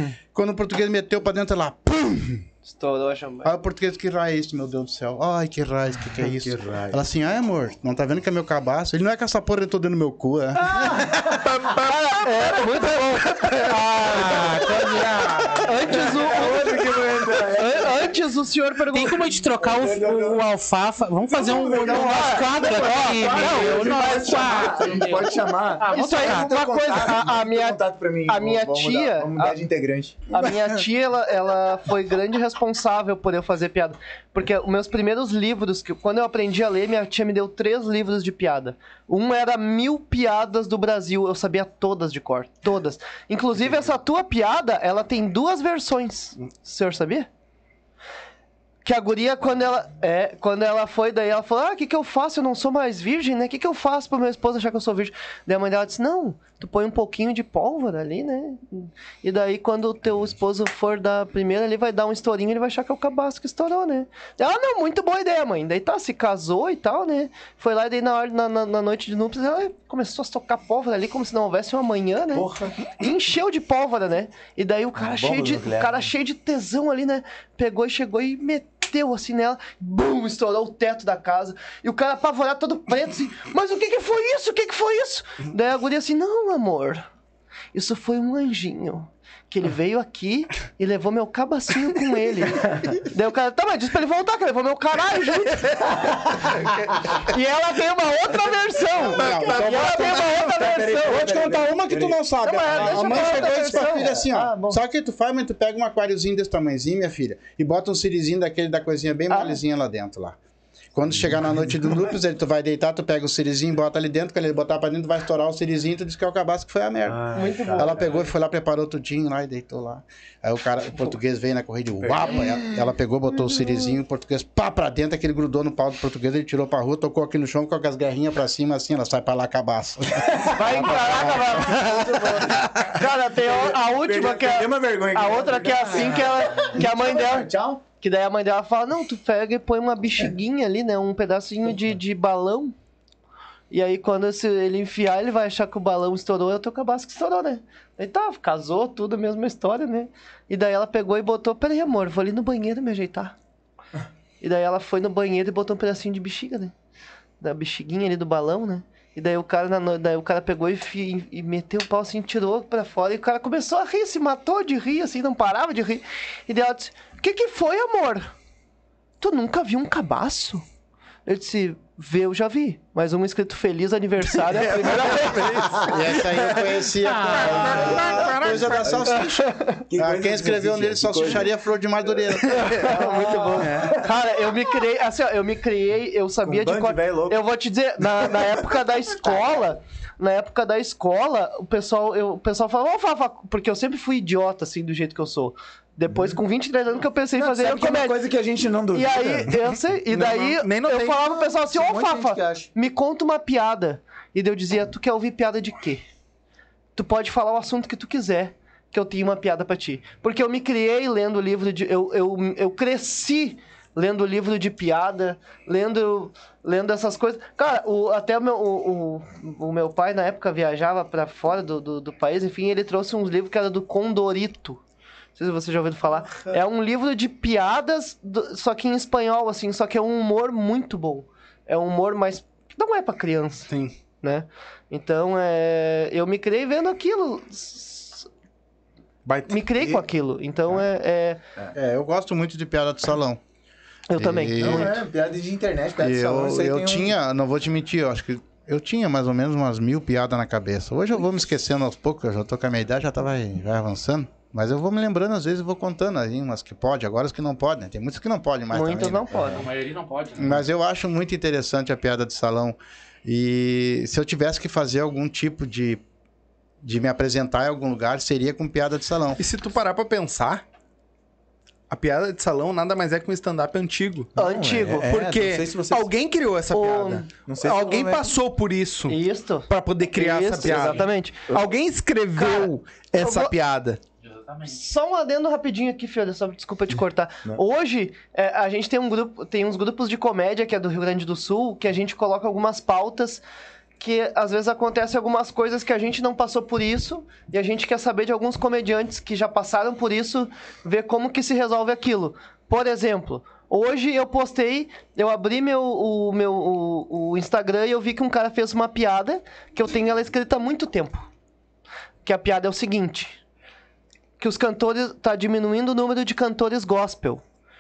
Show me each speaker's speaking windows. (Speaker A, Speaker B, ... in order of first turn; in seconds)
Speaker A: 0.3-2.4, 3.4-11.1, 99.0-99.9, 101.0-110.4, 111.0-132.1, 175.8-182.9, 241.8-243.4, 244.1-245.0, 246.0-259.3, 260.4-266.0, 266.8-269.4
Speaker B: 2.6-3.5, 11.9-14.3, 15.6-19.2, 21.7-25.0, 25.9-29.6, 30.3-47.3, 48.9-87.1, 87.7-95.9, 97.3-101.4, 102.4-104.8, 109.3-109.6, 117.3-118.0, 130.5-142.7, 143.7-153.3, 154.4-156.7, 157.4-168.3, 169.2-170.6, 171.3-175.9, 179.2-179.8, 182.6-198.2, 198.9-206.0, 207.0-224.8, 225.4-233.7, 234.2-238.3, 239.5-241.4, 244.1-244.9, 258.7-259.6, 274.4-275.1, 276.7-277.3, 279.1-281.5, 282.4-283.6, 284.6-293.4, 294.0-311.3, 312.2-313.4, 314.4-317.4
Speaker C: 6.2-7.0, 10.6-11.8, 14.1-18.1, 19.6-20.6, 21.3-30.5, 72.3-72.7, 75.0-76.1, 95.9-97.1, 99.5-103.3, 117.1-118.2, 122.0-122.9, 130.2-132.9, 133.4-137.8, 175.6-176.0, 177.4-179.3, 179.9-181.5, 182.1-184.1, 186.4-187.4, 188.2-189.6, 196.1-196.4, 197.4-199.7, 201.2-202.7, 239.8-240.0, 244.6-247.2, 274.4-276.1, 277.5-278.3
Speaker D: 11.6-11.9, 99.2-100.5, 102.8-103.8, 174.5-176.6, 177.3-179.1, 183.6-184.0, 200.1-201.2, 233.7-233.9, 269.4-270.6, 271.9-274.3, 275.1-284.0
Speaker E: 14.0-15.8, 18.9-26.6, 177.0-177.5, 259.4-260.6, 280.7-281.0, 284.2-284.8